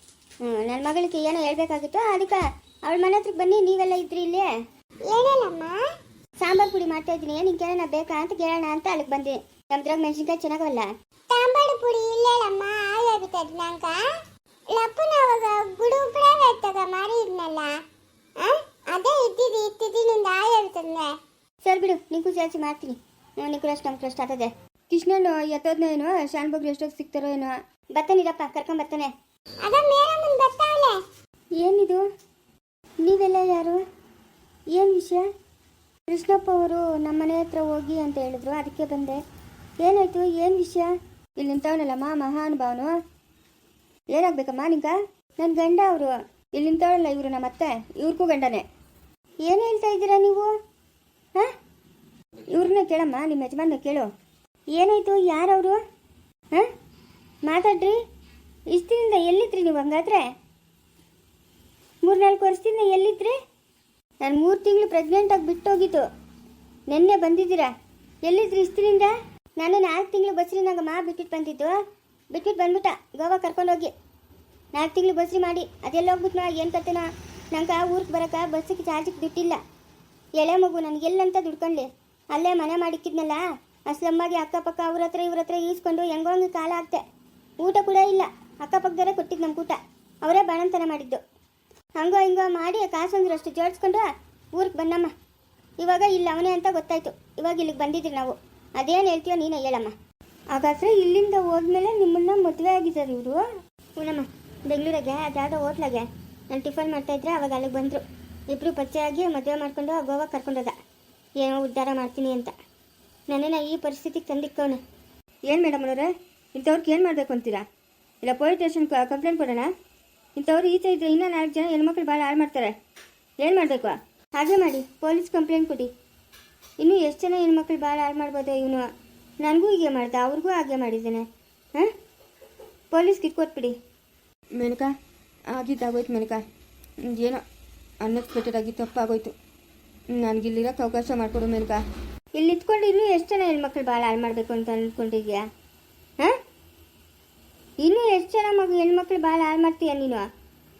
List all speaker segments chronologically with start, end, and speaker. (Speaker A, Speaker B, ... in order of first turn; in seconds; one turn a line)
Speaker A: 0.4-4.5
Speaker B: 5.1-5.8
Speaker A: 6.4-10.9
Speaker B: 11.3-14.1
Speaker B: 14.7-17.8
Speaker B: 18.4-21.1
Speaker A: 21.6-29.1
Speaker B: 29.6-31.0
Speaker A: 31.6-32.0
Speaker A: 33.0-33.8
Speaker A: 34.8-35.3
Speaker A: 36.1-39.2
Speaker A: 39.8-43.0
Speaker A: 44.1-48.6
Speaker A: 49.5-50.5
Speaker A: 52.5-54.1
Speaker A: 54.8-55.8
Speaker A: 57.5-58.0
Speaker A: 58.7-60.3
Speaker A: 62.0-63.4
Speaker A: 64.2-66.1
Speaker A: 66.9-67.7
Speaker A: 68.2-71.8
Speaker A: 72.3-73.9
Speaker A: 74.7-79.6
Speaker A: 80.4-87.0
Speaker A: 87.6-91.2
Speaker A: 92.0-95.1
Speaker A: 95.8-99.9
Speaker A: 100.5-103.4
Speaker A: 104.0-110.8
Speaker A: 111.4-112.5
Speaker A: 113.3-114.8
Speaker A: 115.5-117.7
Speaker A: 118.2-119.7
Speaker A: 120.4-122.7
Speaker A: 123.4-125.9
Speaker A: 126.8-128.9
Speaker A: 129.4-131.9
Speaker A: 132.9-133.7
Speaker C: 134.6-134.9
Speaker C: 135.5-136.4
Speaker C: 137.1-137.4
Speaker C: 138.0-139.3
Speaker C: 140.2-141.8
Speaker A: 142.3-145.4
Speaker A: 147.8-150.3